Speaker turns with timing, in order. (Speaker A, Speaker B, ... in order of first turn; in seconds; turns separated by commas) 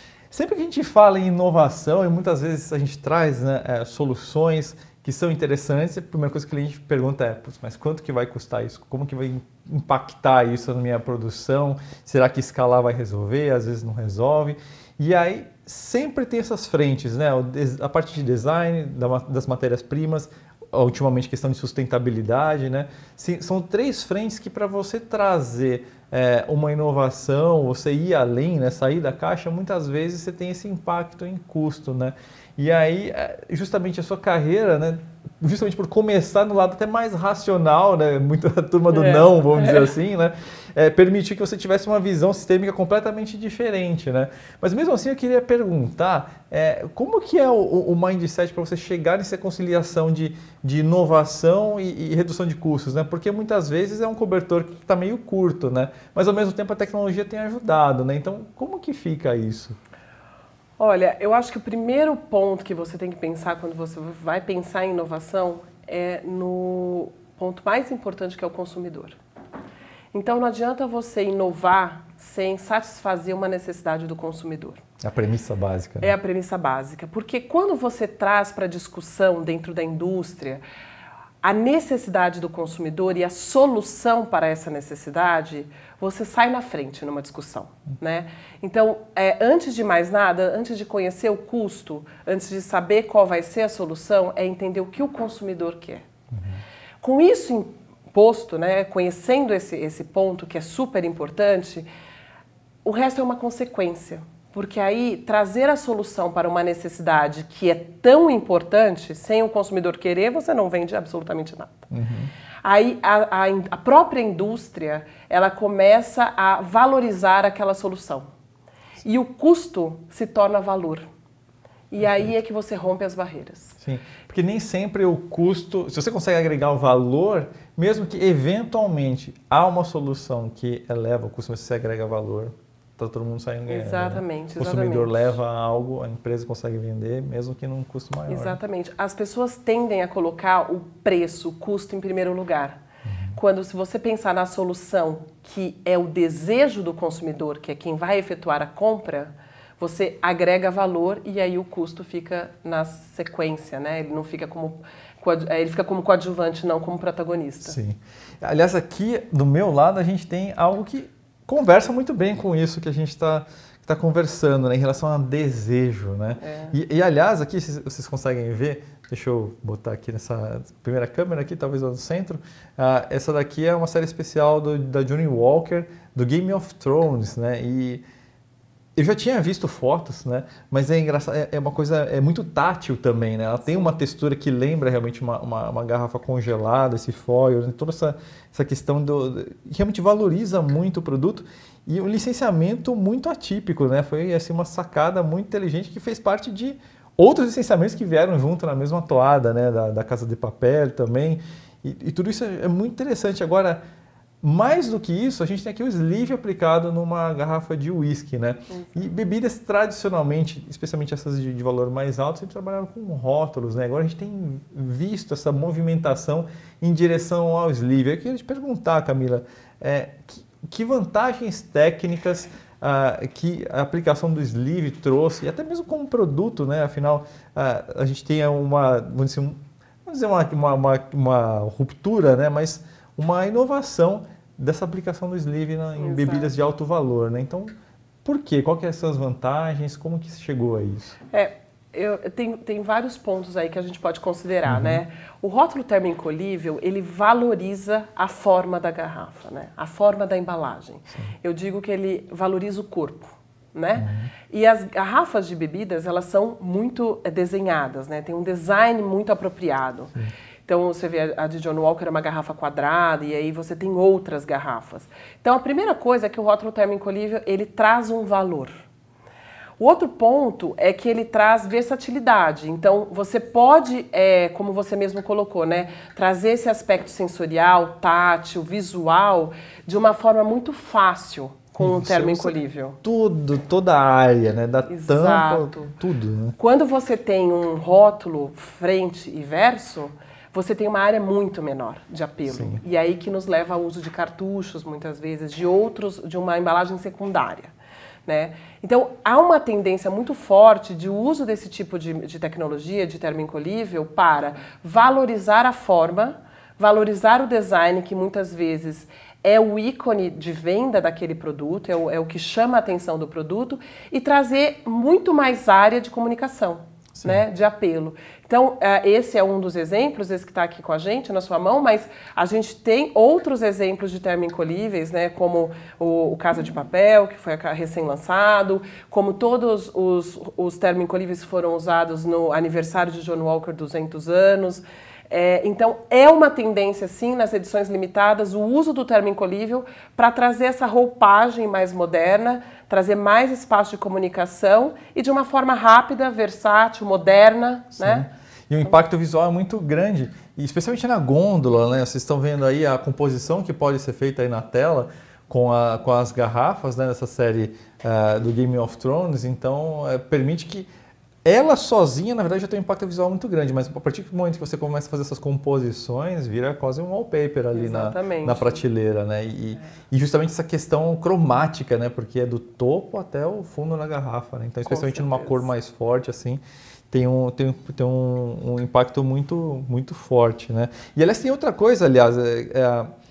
Speaker A: 0.3-59.8, Speaker B: 38.9-39.9, Speaker B: 60.8-69.2, Speaker B: 70.1-74.8, Speaker A: 75.0-76.1, Speaker B: 76.0-80.6, Speaker B: 81.4-96.1, Speaker A: 96.3-96.6, Speaker B: 97.0-101.9, Speaker B: 102.8-111.9, Speaker A: 111.9-112.3, Speaker B: 112.6-118.3, Speaker B: 119.0-121.1, Speaker B: 121.9-123.8, Speaker A: 122.0-122.3, Speaker A: 123.8-138.6, Speaker B: 133.7-135.4, Speaker B: 138.3-142.8, Speaker A: 143.1-143.4, Speaker B: 143.4-157.8, Speaker A: 157.6-178.0, Speaker B: 166.4-166.7, Speaker A: 179.0-203.8, Speaker A: 204.4-237.7, Speaker B: 208.7-209.1, Speaker B: 236.0-236.5, Speaker A: 238.2-241.2, Speaker B: 241.3-260.1, Speaker A: 244.7-245.0, Speaker A: 253.9-254.3, Speaker B: 260.7-268.8, Speaker B: 269.8-283.0, Speaker A: 281.8-286.6, Speaker B: 284.9-285.9, Speaker B: 286.6-297.7, Speaker A: 292.5-292.8, Speaker B: 298.3-348.3, Speaker A: 348.0-360.9, Speaker A: 361.4-383.1, Speaker B: 367.7-368.8, Speaker B: 374.9-375.7